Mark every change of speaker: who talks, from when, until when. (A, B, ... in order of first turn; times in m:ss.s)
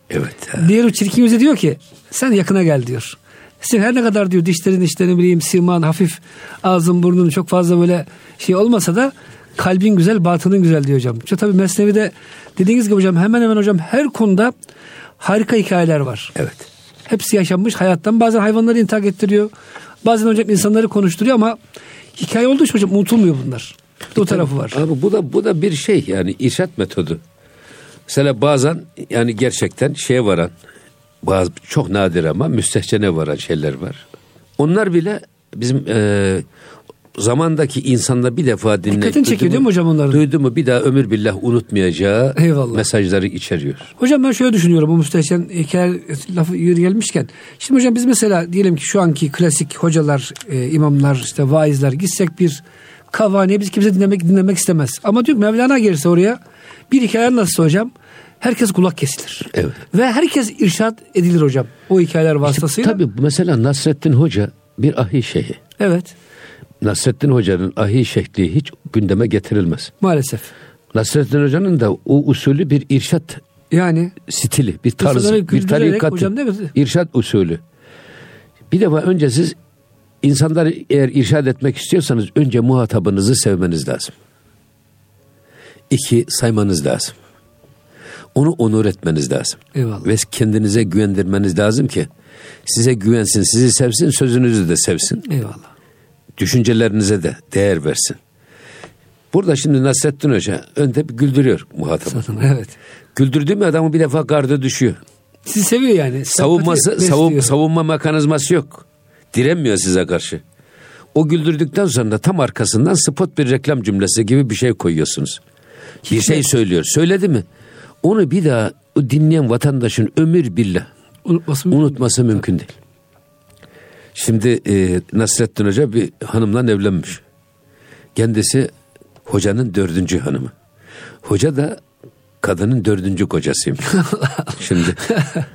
0:00.1-0:00.7 A
0:00.6-0:14.5 B
0:15.2-0:16.3 B
0:16.4-0:16.7 A
0:17.1-0:19.5 B
0:20.0-0:21.6 B
0:22.2-0:24.8 B
0:24.1-0:27.2 A
0:28.1-0:30.5 A
0:31.2-0:34.0 A
0:34.6-0:36.4 A
0:37.2-0:43.9 A
0:38.9-0:40.2 B
0:42.4-0:42.8 B
0:44.0-0:56.4 B
0:56.9-1:03.0 B
1:02.4-1:05.6 A
1:05.8-1:06.1 B
1:06.8-1:09.9 A
1:10.0-1:10.5 B
1:10.9-1:13.4 A
1:13.7-1:14.2 B
1:14.2-1:17.6 A
1:15.0-1:16.7 B
1:18.7-1:19.6 A
1:20.2-1:24.1 A
1:25.9-1:27.1 A
1:28.3-1:32.1 A
1:29.7-1:30.1 B
1:32.6-1:35.3 A
1:35.2-1:35.6 B
1:36.4-1:38.2 A
1:39.3-1:42.4 A
1:42.1-1:42.7 B
1:43.1-1:45.0 A
1:45.5-1:47.5 B
1:46.3-1:50.4 A
1:51.1-1:55.4 A
1:56.0-1:56.4 B
1:56.1-1:57.4 A
1:58.0-2:00.9 A
2:01.2-2:02.0 B
2:01.7-2:02.7 A
2:04.1-2:07.2 A
2:08.2-2:08.7 A
2:09.2-2:10.5 A
2:11.2-2:11.8 A
2:12.4-2:14.0 A
2:14.0-2:14.5 B
2:14.5-2:15.1 A